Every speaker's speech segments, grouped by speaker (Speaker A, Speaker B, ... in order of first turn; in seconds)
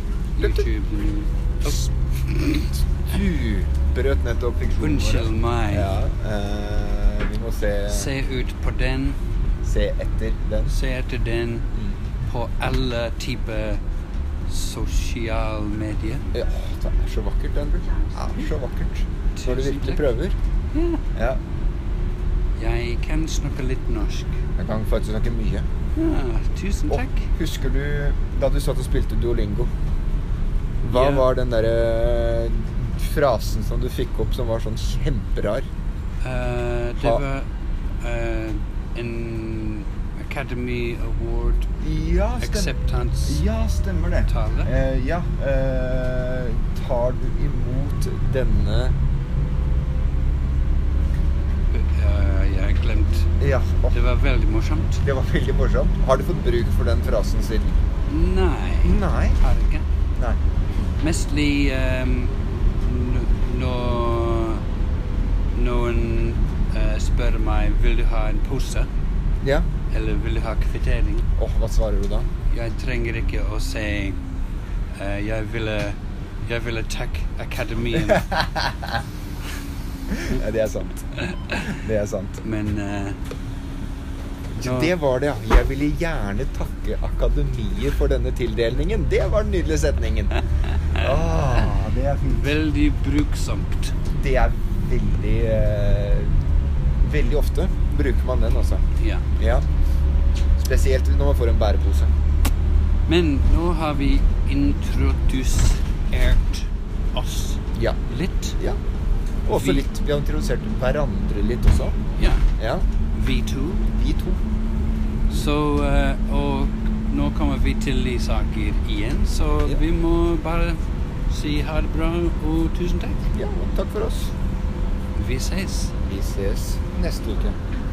Speaker A: 0.3-2.8, 4.8-5.9, 7.9-9.2, 10.7-11.7, 12.2-13.8, 14.5-16.2, 19.4-20.1, 20.7-21.0, 22.6-24.4, 25.9-27.3, 30.8-31.3, 36.2-37.5, 38.0-41.7, 42.4-43.4, 44.3-44.7, 51.7-53.3, 53.9-55.0, 58.1-59.8, 61.0-64.6, 65.5-68.9, 69.9-71.3, 72.5-74.2, 74.9-78.3, 81.1-81.8, 82.4-83.2, 84.6-85.0, 90.8-91.7, 92.3-93.9, 99.0-99.2, 103.1-108.6, 109.5-109.9, 112.2-112.5, 113.1-113.8, 115.3-123.3, 125.1-126.0
Speaker B: 0.4-0.7, 3.0-8.1, 9.6-10.8, 16.3-20.4, 21.1-21.4, 24.6-25.6, 26.9-29.7, 30.8-35.7, 41.8-42.7, 43.2-48.9, 53.4-54.0, 55.0-57.8, 58.8-59.4, 69.4-69.7, 71.4-72.3, 78.2-78.9, 80.1-81.1, 81.6-82.4, 84.5-90.3, 90.9-92.5, 94.1-96.3, 97.0-98.8, 99.4-99.7, 100.6-102.1, 109.5-112.0, 112.6-112.8, 113.9-114.4, 123.3-124.3, 126.0-127.6